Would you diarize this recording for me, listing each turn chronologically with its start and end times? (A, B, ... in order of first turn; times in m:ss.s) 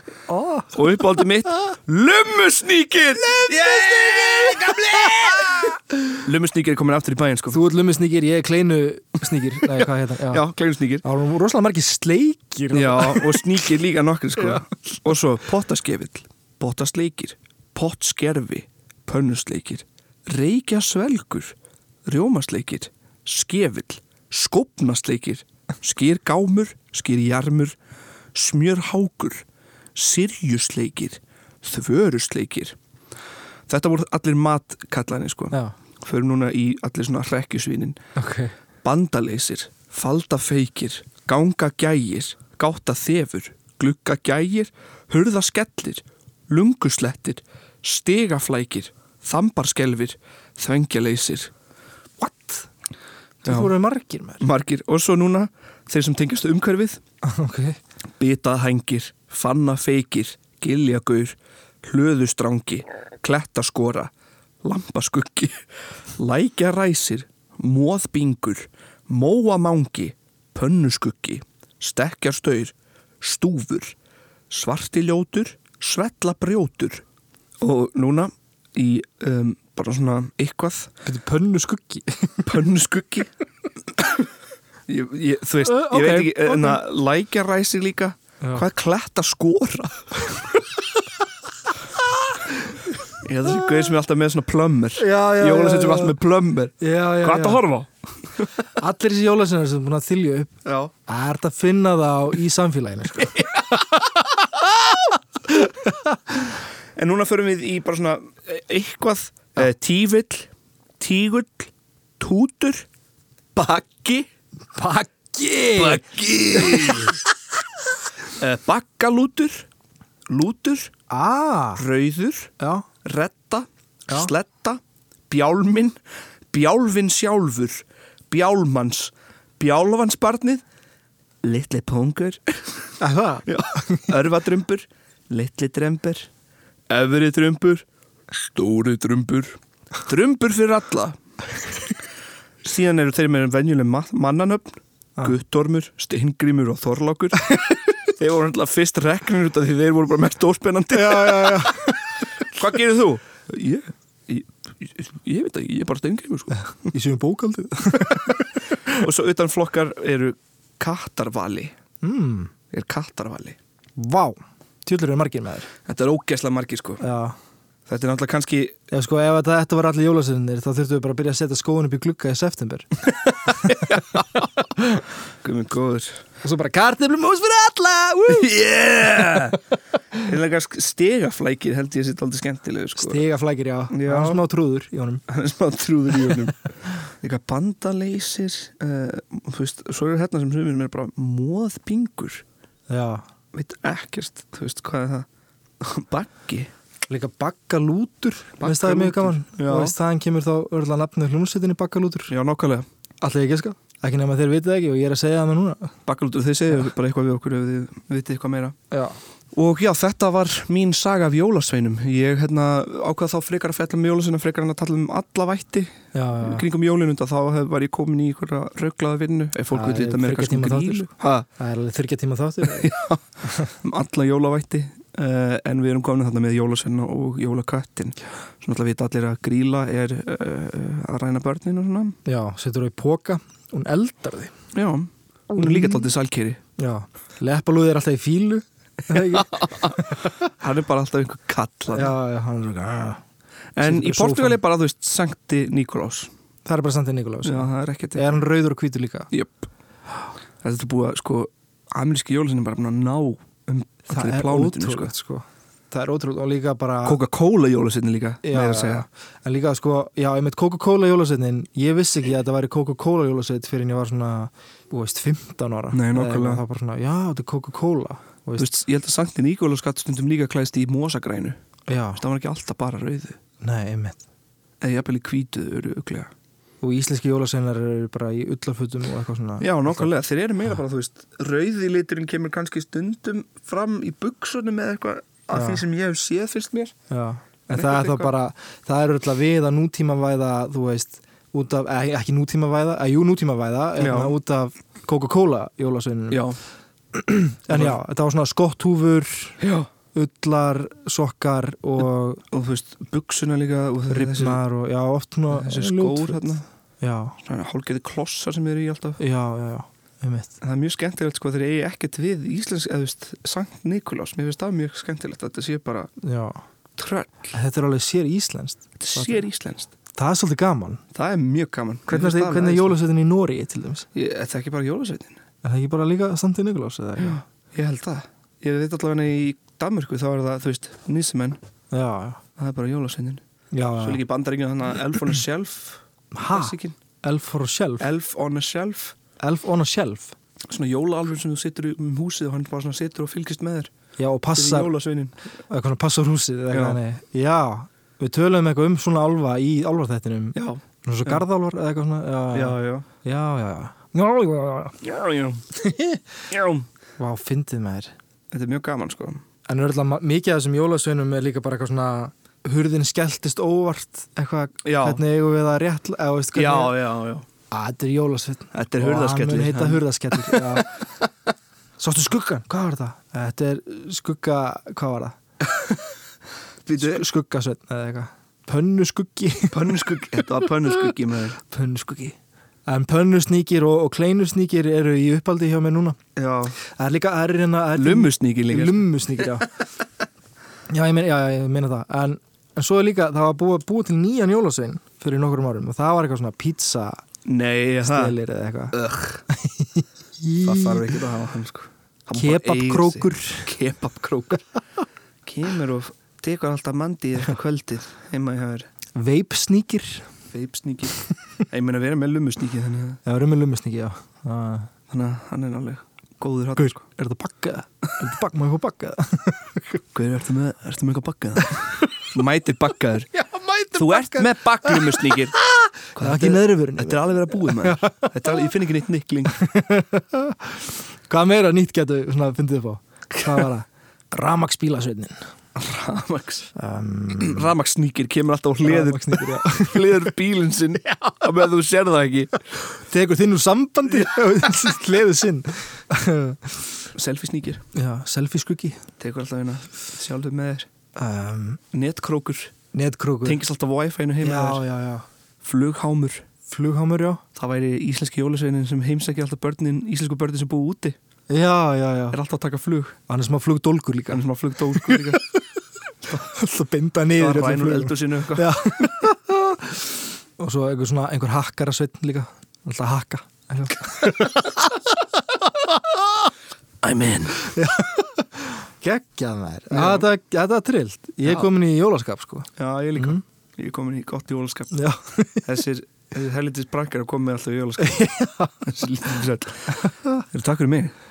0:00.3-0:00.8 A
0:00.7-0:07.6 B
0:03.3-0:05.7 A
0:07.5-0:10.5 A
0:09.8-0:11.0 B
0:11.0-0:13.6 A
0:12.7-0:27.8 B
0:14.4-0:14.6 A
0:28.3-0:32.8 B
0:33.7-0:38.0 B
0:38.2-0:38.5 A
0:38.8-0:51.5 B
0:52.2-0:52.7 A
0:53.4-0:54.4 A
0:53.4-0:53.7 B
0:54.4-0:57.0 B
0:57.2-0:57.8 A
0:58.2-1:04.1 B
1:04.6-1:05.6 B
1:06.2-1:14.0 B
1:14.5-1:17.0 B
1:17.6-1:20.9 B
1:21.0-1:22.6 A
1:22.4-1:23.3 B
1:24.9-1:30.7 B
1:25.6-1:26.8 A
1:28.4-1:28.6 A
1:33.1-1:38.5 B
1:33.5-1:33.9 A
1:35.0-1:36.2 A
1:36.8-1:37.6 A
1:38.8-1:40.6 A
1:40.6-1:40.9 B
1:41.1-1:43.5 A
1:45.5-1:46.2 A
1:47.0-1:52.9 B
1:53.6-1:54.3 B
1:54.8-1:56.0 A
1:55.7-1:57.2 B
1:56.6-1:57.1 A
1:58.4-1:59.7 B
2:00.3-2:00.9 B
2:01.1-2:01.8 A
2:01.8-2:02.5 B
2:02.6-2:02.9 A
2:03.0-2:06.0 B
2:06.5-2:10.6 B
2:11.4-2:12.9 B
2:13.0-2:14.1 A
2:13.5-2:16.3 B
2:16.9-2:17.8 B
2:18.4-2:21.2 B
2:22.6-2:36.9 B
2:30.9-2:32.0 A
2:36.6-2:39.0 A
2:38.9-2:41.7 B
2:42.0-2:42.5 A
2:42.7-2:43.6 B
2:44.0-2:45.7 A
2:45.9-2:47.0 B
2:47.0-2:47.4 A
2:47.9-2:48.8 B
2:48.9-2:55.0 A
2:53.6-2:54.4 B
2:55.4-2:56.2 B
2:56.4-2:58.6 A
2:58.3-2:59.6 B
2:59.2-2:59.5 A
3:00.1-3:03.2 B
3:03.0-3:05.2 A
3:03.9-3:04.4 B
3:05.3-3:06.6 B
3:07.2-3:12.4 B
3:12.9-3:13.2 A
3:13.5-3:15.3 B
3:15.8-3:16.7 B
3:17.1-3:22.3 A
3:18.6-3:20.0 B
3:22.3-3:22.9 B
3:23.2-3:25.9 A
3:26.1-3:28.8 B
3:28.9-3:29.2 A
3:29.5-3:41.4 B
3:36.1-3:36.6 A
3:39.7-3:42.9 A
3:42.6-3:52.2 B
3:43.4-3:43.7 A
3:52.2-3:54.5 A
3:54.7-3:56.6 B
3:55.5-3:56.1 A
3:56.8-4:00.3 A
3:59.1-4:02.1 B
4:01.9-4:03.2 A
4:03.8-4:06.3 B
4:03.8-4:04.6 A
4:06.6-4:09.3 A
4:07.4-4:08.4 B
4:09.3-4:09.7 B
4:10.6-4:15.1 B
4:14.1-4:17.2 A
4:17.0-4:19.1 B
4:18.4-4:28.8 A
4:25.9-4:26.6 B
4:28.6-4:31.6 B
4:31.9-4:32.2 A
4:32.2-4:33.4 B
4:33.6-4:34.2 A
4:34.8-4:36.3 B
4:36.8-4:40.1 A
4:39.6-4:46.9 B
4:45.5-4:45.8 A
4:47.1-4:56.4 A
4:47.7-4:48.4 B
4:54.0-4:54.3 B
4:56.3-4:56.6 B
4:57.1-4:59.6 A
4:57.7-4:58.0 B
4:59.6-4:59.9 B
5:00.1-5:02.4 A
5:02.5-5:04.6 B
5:04.1-5:07.4 A
5:05.5-5:06.6 B
5:07.4-5:09.2 B
5:09.2-5:10.6 A
5:10.6-5:16.1 B
5:16.2-5:16.6 A
5:17.0-5:17.5 B
5:17.5-5:19.4 A
5:19.0-5:19.9 B
5:20.1-5:21.0 A
5:21.1-5:23.0 B
5:22.1-5:24.1 A
5:24.1-5:25.4 B
5:25.6-5:27.4 A
5:27.2-5:31.6 B
5:31.9-5:32.4 A
5:32.6-5:33.4 B
5:33.7-5:34.2 A
5:34.0-5:37.0 B
5:36.3-5:38.1 A
5:38.0-5:39.2 B
5:39.4-5:40.3 A
5:40.7-5:43.9 B
5:44.2-5:44.9 A
5:44.5-5:45.3 B
5:45.7-5:55.0 A
5:46.7-5:47.0 B
5:50.6-5:51.4 B
5:52.5-5:53.1 B
5:55.0-5:55.6 B
5:55.8-5:56.2 A
5:56.5-5:56.9 B
5:57.2-5:58.1 A
5:58.5-5:59.4 B
5:59.7-6:07.0 A
6:04.8-6:05.2 B
6:06.6-6:07.4 B
6:07.7-6:10.9 A
6:08.7-6:10.9 B
6:12.0-6:15.4 A
6:15.6-6:16.0 B
6:16.9-6:17.2 B
6:17.0-6:20.9 A
6:19.7-6:21.6 B
6:21.6-6:26.2 A
6:26.4-6:26.8 B
6:26.8-6:29.7 A
6:28.0-6:29.1 B
6:30.9-6:37.2 A
6:37.4-6:38.4 B
6:38.0-6:39.0 A
6:38.9-6:39.4 B
6:39.5-6:41.2 A
6:40.6-6:44.6 B
6:42.3-6:43.7 A
6:45.4-6:48.9 B
6:49.2-6:50.3 A
6:50.5-6:53.2 B
6:53.2-6:54.9 A
6:55.1-6:57.0 B
6:56.8-7:00.0 A
7:00.1-7:03.3 B
7:03.4-7:05.3 A
7:03.9-7:05.6 B
7:06.1-7:09.6 B
7:06.2-7:08.4 A
7:09.6-7:15.4 A
7:13.4-7:13.7 B
7:15.8-7:16.7 B
7:16.8-7:17.7 A
7:17.4-7:22.6 B
7:18.8-7:20.3 A
7:23.0-7:26.8 A
7:27.1-7:27.8 B
7:27.9-7:29.0 A
7:29.2-7:30.9 B
7:31.2-7:31.8 A
7:31.9-7:32.7 B
7:32.9-7:33.6 A
7:33.4-7:34.8 B
7:34.4-7:35.3 A
7:35.6-7:36.4 B
7:36.7-7:37.4 A
7:37.6-7:41.2 B
7:41.5-7:42.4 A
7:42.3-7:43.2 B
7:43.3-7:45.4 A
7:44.3-7:45.4 B
7:46.3-7:50.0 A
7:47.4-7:48.8 B
7:50.6-7:55.0 A
7:55.8-7:56.2 A
7:57.0-7:57.7 B
7:57.6-8:03.4 A
7:59.9-8:00.3 B
8:02.8-8:04.9 B
8:04.9-8:05.6 A
8:05.6-8:11.1 B
8:08.0-8:08.8 A